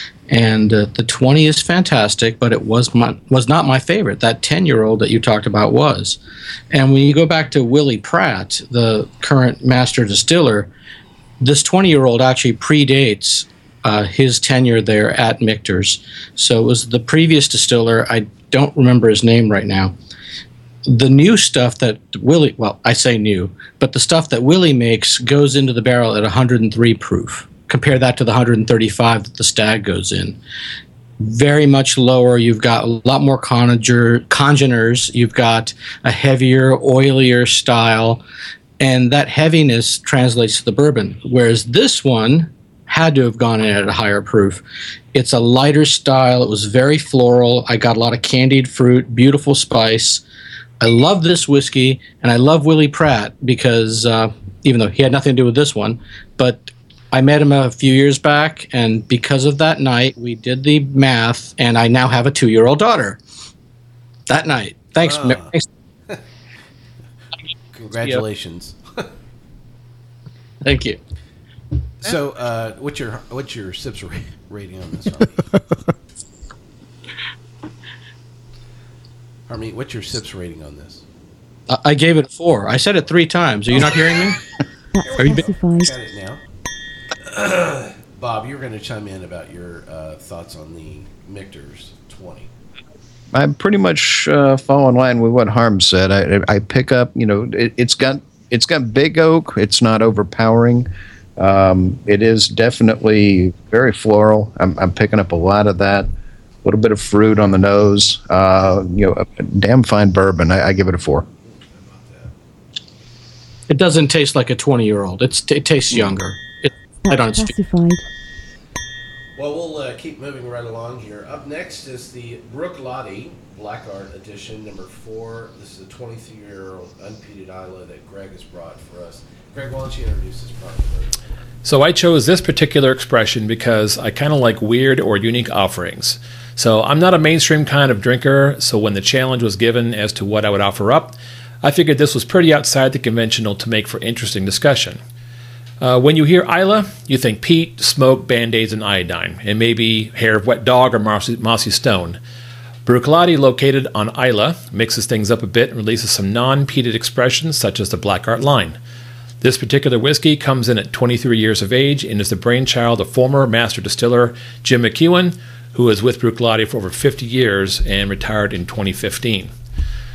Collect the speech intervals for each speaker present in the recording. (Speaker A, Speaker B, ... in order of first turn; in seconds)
Speaker A: 0.3-6.2, 6.7-10.7, 11.4-19.9, 20.9-30.4, 31.2-38.2, 38.8-44.6, 45.1-50.2, 50.8-63.2, 64.3-65.7, 70.6-71.0, 81.7-84.4, 113.7-117.5
Speaker B: 65.0-65.5, 67.7-69.0, 72.0-75.4, 79.5-81.0, 85.0-86.4, 87.3-92.5, 111.7-112.3, 119.3-131.1
Speaker C: 84.9-85.9, 117.0-118.0
Speaker D: 93.3-106.1, 106.6-111.2
Speaker E: 131.6-145.0, 145.8-152.2, 152.8-158.8, 159.4-169.5